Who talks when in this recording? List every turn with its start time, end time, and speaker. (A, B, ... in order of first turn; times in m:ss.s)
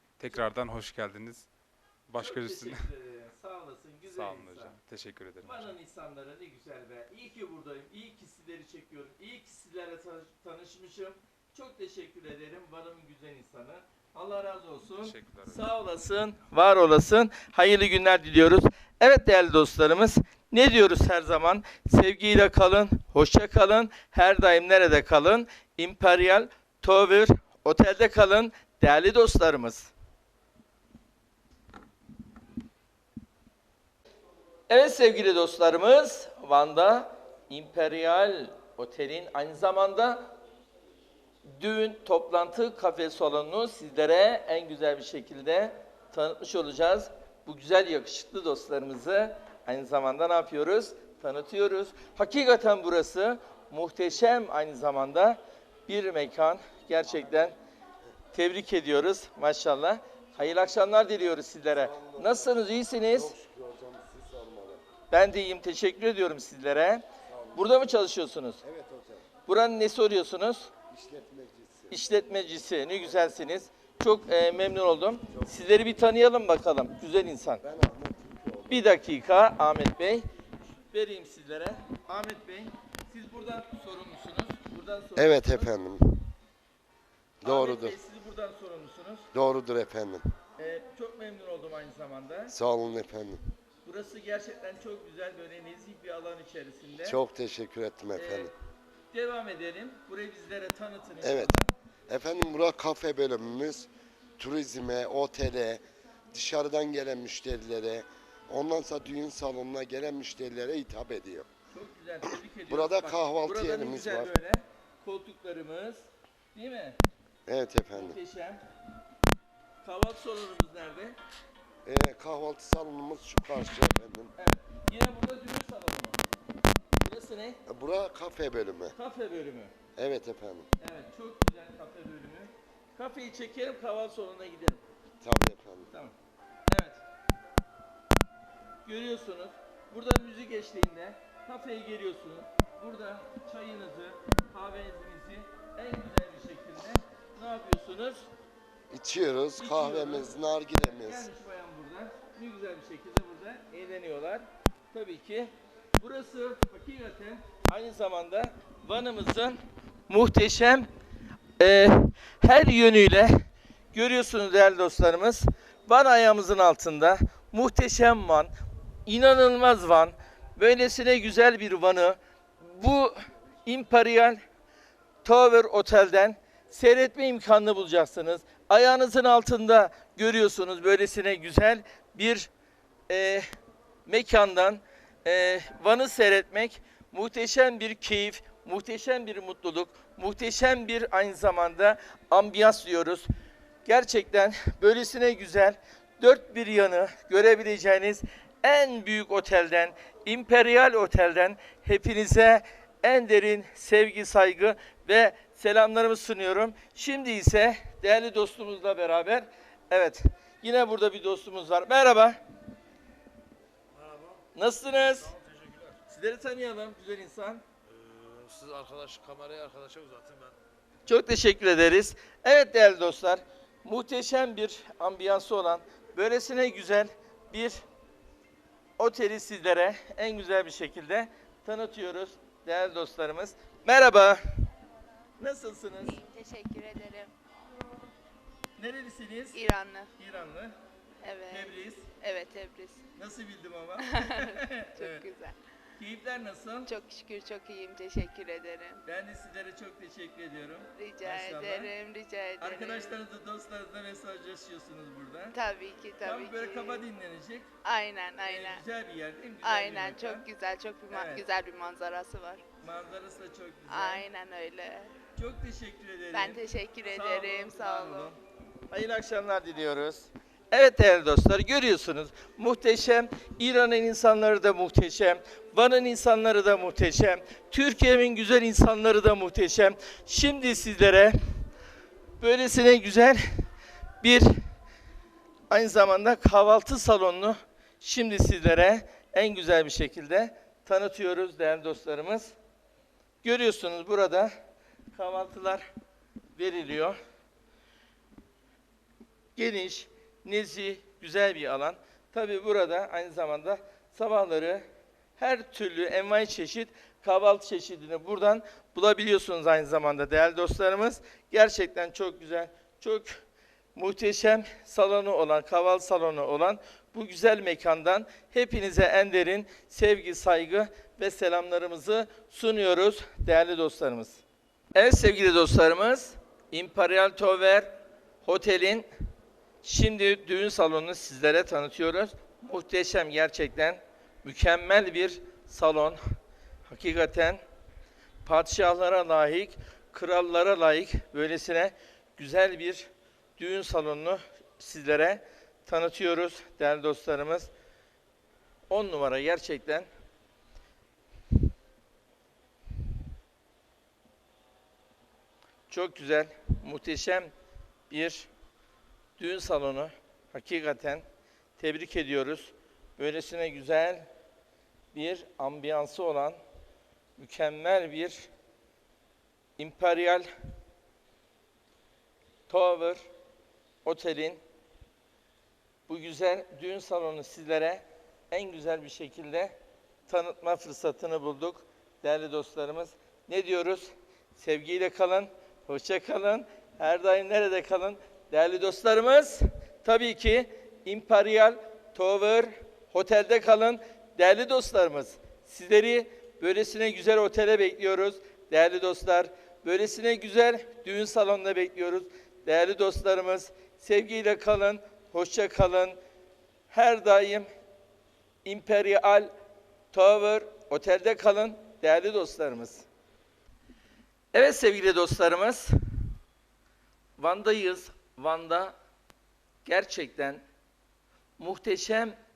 0:00.2-0:01.5 A
0:02.1-0:02.9 A
0:02.2-0:04.7 B
0:04.0-0:05.7 A
0:05.4-0:29.9 B
0:15.0-0:15.7 A
0:34.7-0:40.3 B
0:41.5-0:57.6 B
0:58.3-1:03.3 B
1:01.7-1:04.8 C
1:05.1-1:08.6 B
1:07.2-1:07.8 C
1:08.6-1:09.3 C
1:09.5-1:10.7 B
1:10.9-1:12.0 C
1:11.9-1:17.6 B
1:15.3-1:16.0 C
1:17.6-1:19.0 C
1:18.7-1:20.2 B
1:20.9-1:25.7 B
1:25.2-1:26.2 C
1:27.4-1:28.0 C
1:27.4-1:29.3 B
1:29.3-1:30.3 C
1:30.6-1:32.5 B
1:32.5-1:33.4 C
1:33.8-1:37.2 B
1:37.0-1:38.5 C
1:38.2-1:38.5 B
1:39.1-1:41.7 B
1:41.2-1:41.6 C
1:42.1-1:51.5 C
1:51.7-1:57.0 B
1:52.7-1:54.3 C
1:57.5-1:58.2 C
1:57.9-1:58.6 B
1:59.8-2:01.2 B
2:01.8-2:04.3 C
2:04.4-2:06.2 B
2:07.0-2:07.6 B
2:07.7-2:09.0 C
2:09.0-2:09.7 B
2:10.0-2:10.7 C
2:10.8-2:14.8 B
2:15.2-2:15.9 C
2:16.7-2:17.0 B
2:18.9-2:28.3 B
2:28.9-2:31.3 C
2:29.6-2:30.3 B
2:30.9-2:40.9 B
2:41.6-2:48.5 B
2:49.1-2:54.4 B
2:55.2-3:02.5 B
3:03.1-3:03.5 B
3:04.1-3:13.3 B
3:13.8-3:32.4 B
3:34.0-3:34.4 D
3:34.6-3:35.4 B
3:35.4-3:35.9 D
3:36.1-3:37.6 B
3:37.9-3:40.6 D
3:41.1-3:47.8 B
3:49.0-3:54.4 B
3:55.4-3:56.2 B
3:56.0-3:57.3 E
3:58.8-3:59.6 B
3:59.5-4:00.1 E
4:00.2-4:00.8 B
4:01.2-4:03.0 E
4:01.5-4:02.1 B
4:03.2-4:05.3 B
4:04.0-4:05.6 E
4:06.0-4:06.9 B
4:06.9-4:09.0 E
4:09.0-4:11.9 B
4:10.9-4:13.2 E
4:12.6-4:15.6 B
4:15.5-4:17.1 E
4:16.2-4:17.7 B
4:17.8-4:18.8 E
4:18.4-4:20.5 B
4:19.6-4:22.6 E
4:21.1-4:21.4 B
4:22.8-4:24.2 B
4:23.9-4:25.1 E
4:25.4-4:28.4 B
4:26.3-4:28.3 E
4:28.9-4:41.4 B
4:42.4-4:43.4 B
4:44.2-4:44.6 B
4:45.7-4:52.6 B
4:53.4-4:54.5 B
4:55.1-4:55.8 B
4:56.6-4:57.2 B
4:59.6-5:04.8 B
5:05.4-5:13.4 B
5:14.0-5:24.4 B
5:25.0-5:27.9 B
5:28.4-5:29.1 B
5:29.8-5:36.2 B
5:36.9-5:37.6 B
5:38.4-5:47.7 B
5:48.9-5:50.1 B
5:55.9-5:57.5 B
5:58.1-5:58.5 B
5:59.4-6:01.2 B
6:01.8-6:04.3 B
6:05.1-6:06.6 B
6:07.4-6:08.5 B
6:09.8-6:10.5 B
6:12.7-6:13.3 B
6:14.0-6:14.6 B
6:16.1-6:19.8 B
6:20.3-6:46.2 B
6:46.9-6:47.7 B
6:48.6-6:49.5 B
6:50.1-6:53.1 B
6:54.5-6:55.9 B
6:57.4-6:58.9 B
6:59.8-7:00.6 B
7:01.6-7:02.4 B